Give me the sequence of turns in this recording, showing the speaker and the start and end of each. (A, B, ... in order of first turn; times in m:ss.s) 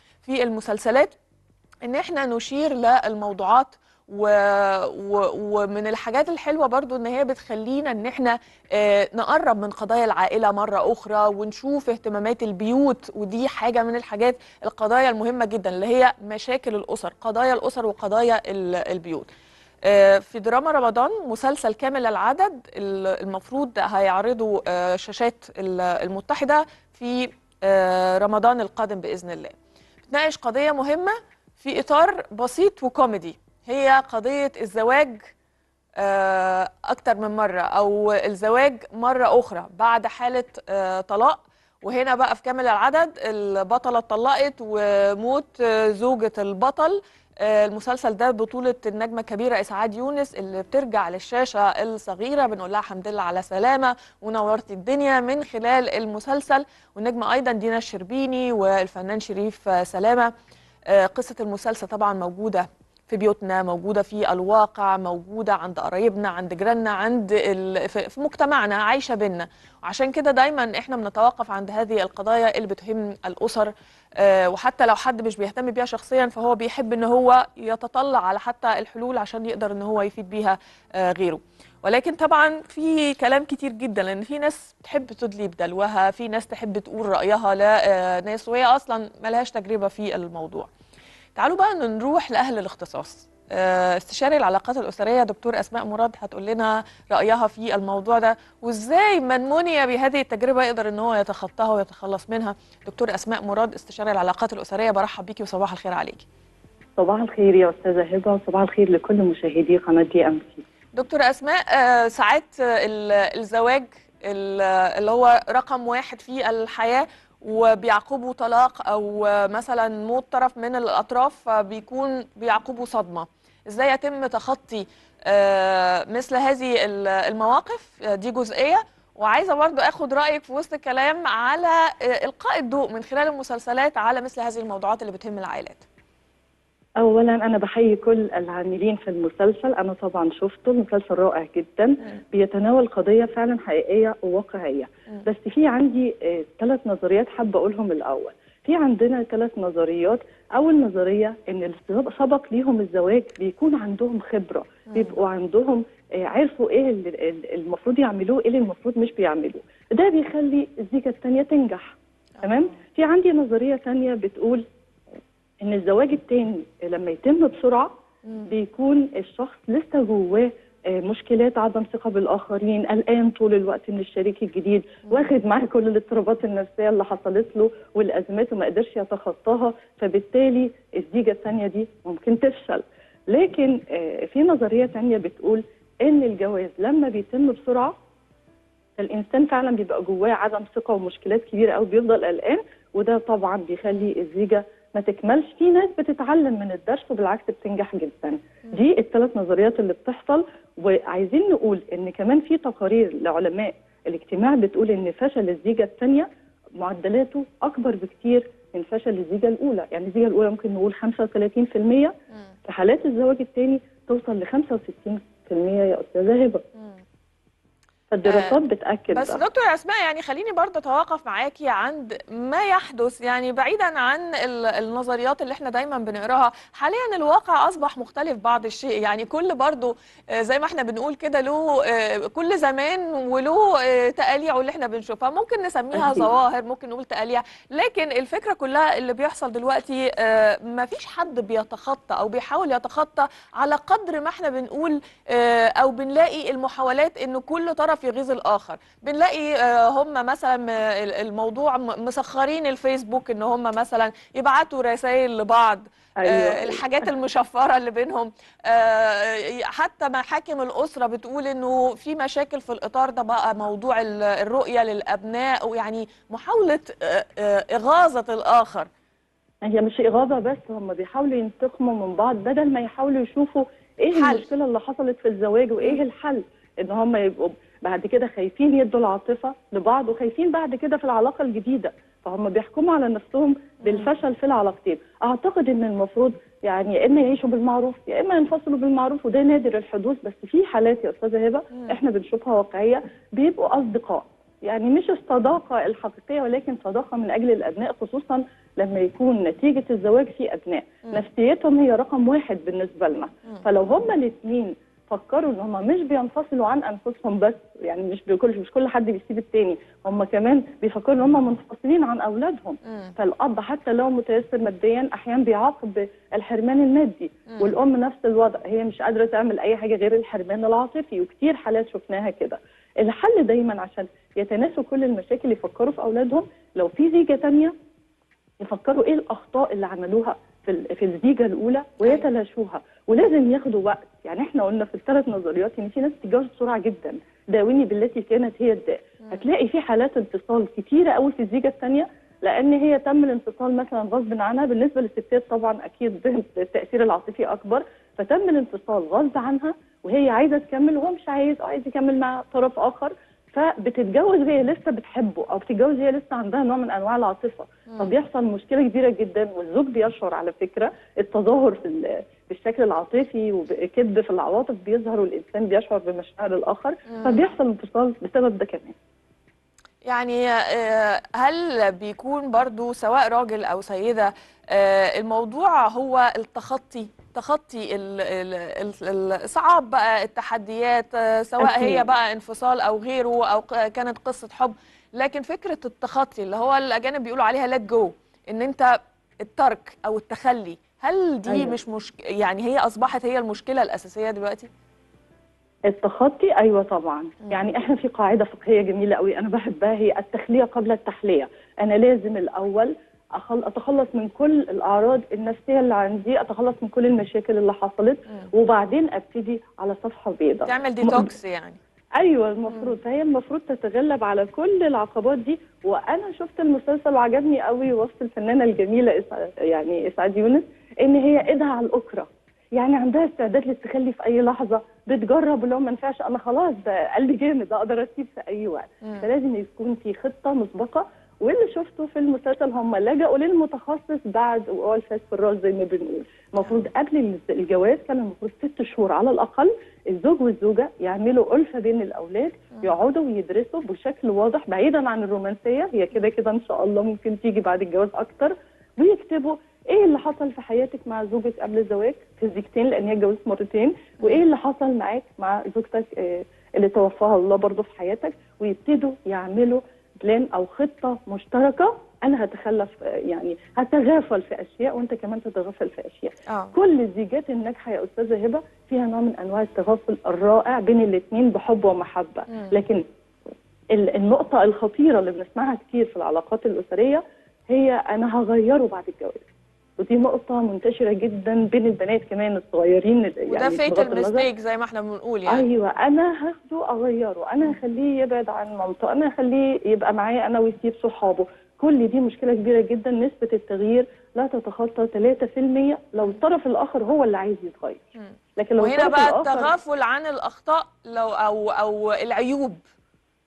0:00.2-0:01.1 A
0:01.8-0:19.3 A
0:19.8-0:29.6 A
0:30.1-0:35.3 A
0:36.0-1:00.3 A
1:00.9-1:30.7 A
1:31.4-1:46.2 A
1:47.0-1:50.6 B
1:50.9-2:15.8 A
2:17.0-2:44.6 B
2:45.6-2:47.9 B
2:48.4-3:07.9 B
3:09.0-3:26.3 B
3:26.8-3:32.1 B
3:32.7-3:36.6 B
3:38.1-3:39.4 B
3:38.2-3:38.6 A
3:39.1-4:28.9 A
3:55.9-3:56.3 B
4:16.2-4:16.9 B
4:29.6-5:27.7 B
4:34.1-4:34.5 A
5:17.5-5:17.7 A
5:28.6-6:08.9 B
6:07.1-6:07.4 A
6:10.0-6:28.9 A
6:21.6-6:22.0 B
6:29.4-6:34.7 A
6:31.5-6:31.8 B
6:35.9-6:51.3 B
6:50.6-6:51.8 A
6:52.2-7:53.0 B
7:16.6-7:16.9 A
7:46.5-7:46.7 A
7:53.9-7:59.4 B
8:00.0-8:04.5 B
8:03.5-8:05.6 A
8:05.5-8:18.0 B
8:18.2-8:22.8 A
8:18.6-8:19.7 B